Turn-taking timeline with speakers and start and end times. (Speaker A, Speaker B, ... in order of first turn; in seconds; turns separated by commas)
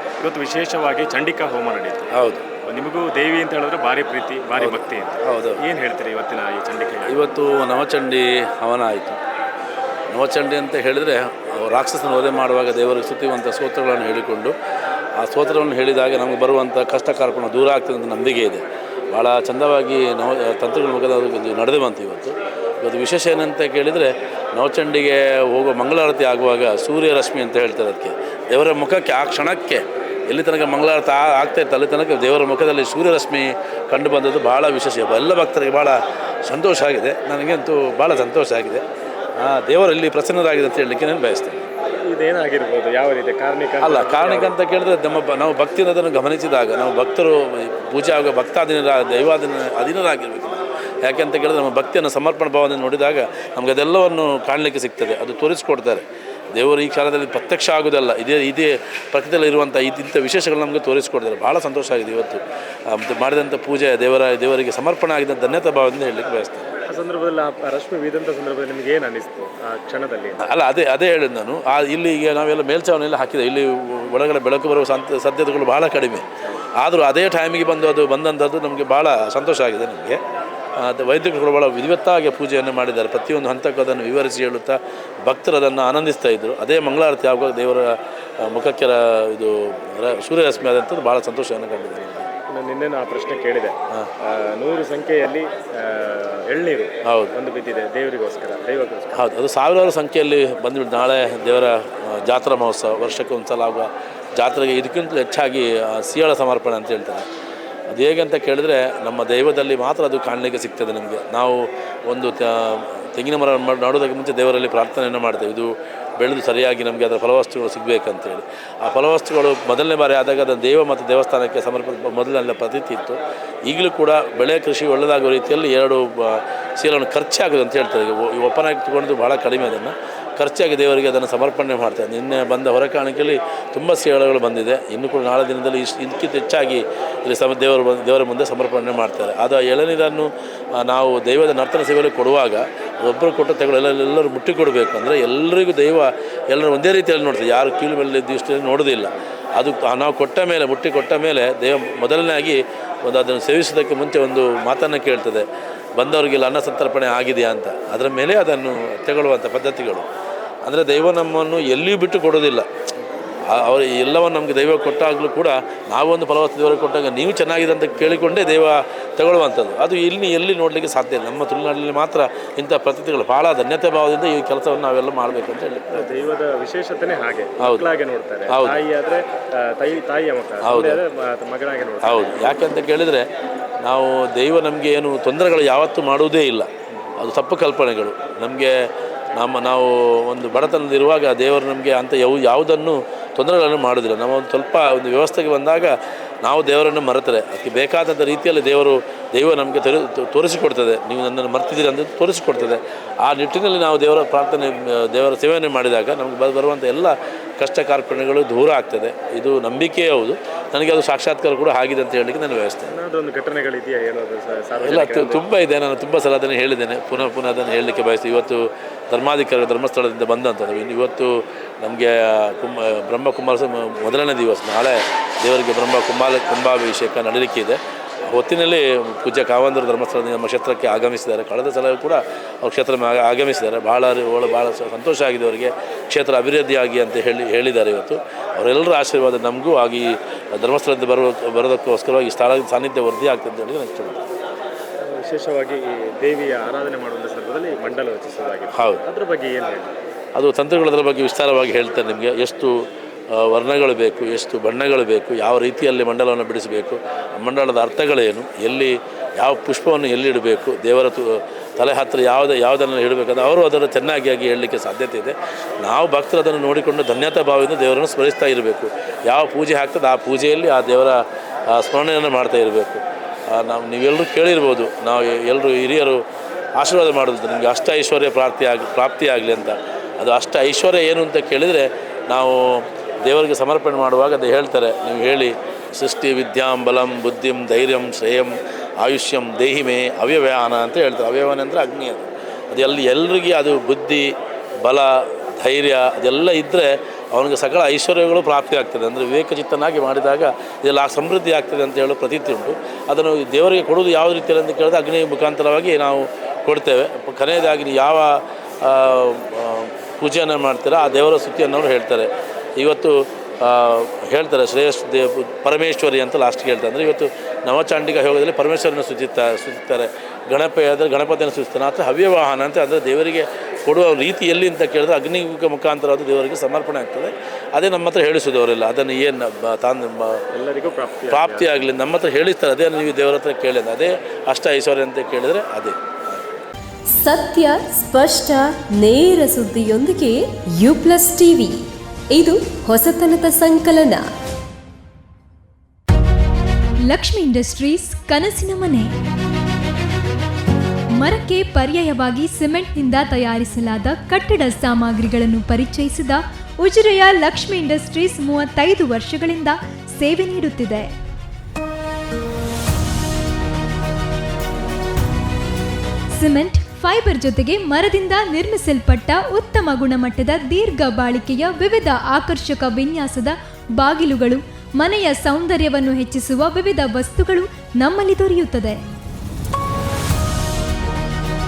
Speaker A: 0.2-7.2, Speaker B: 2.1-2.5, Speaker B: 4.6-5.6, Speaker B: 7.1-9.2, Speaker B: 10.1-14.6, Speaker B: 15.2-38.9, Speaker B: 39.4-41.7, Speaker A: 42.0-44.5, Speaker B: 43.8-66.7, Speaker A: 66.9-70.5, Speaker B: 70.4-80.2, Speaker B: 80.8-92.3, Speaker A: 92.5-99.3, Speaker B: 97.0-97.3, Speaker B: 99.1-107.3, Speaker B: 107.9-160.1, Speaker B: 160.6-162.7, Speaker B: 163.5-176.3, Speaker A: 175.9-182.6, Speaker B: 177.6-177.9, Speaker B: 178.5-178.8, Speaker B: 180.6-181.0, Speaker B: 182.0-183.3, Speaker B: 183.8-212.9, Speaker A: 212.9-215.4, Speaker B: 214.8-244.3, Speaker A: 245.1-249.9, Speaker B: 248.7-249.0, Speaker B: 250.3-252.8, Speaker B: 253.3-276.2, Speaker B: 276.8-294.3, Speaker B: 294.8-330.4, Speaker A: 330.5-331.7, Speaker B: 331.3-336.0, Speaker C: 337.1-341.8, Speaker C: 342.3-344.3, Speaker D: 347.1-349.1, Speaker D: 351.2-361.1, Speaker D: 366.4-379.0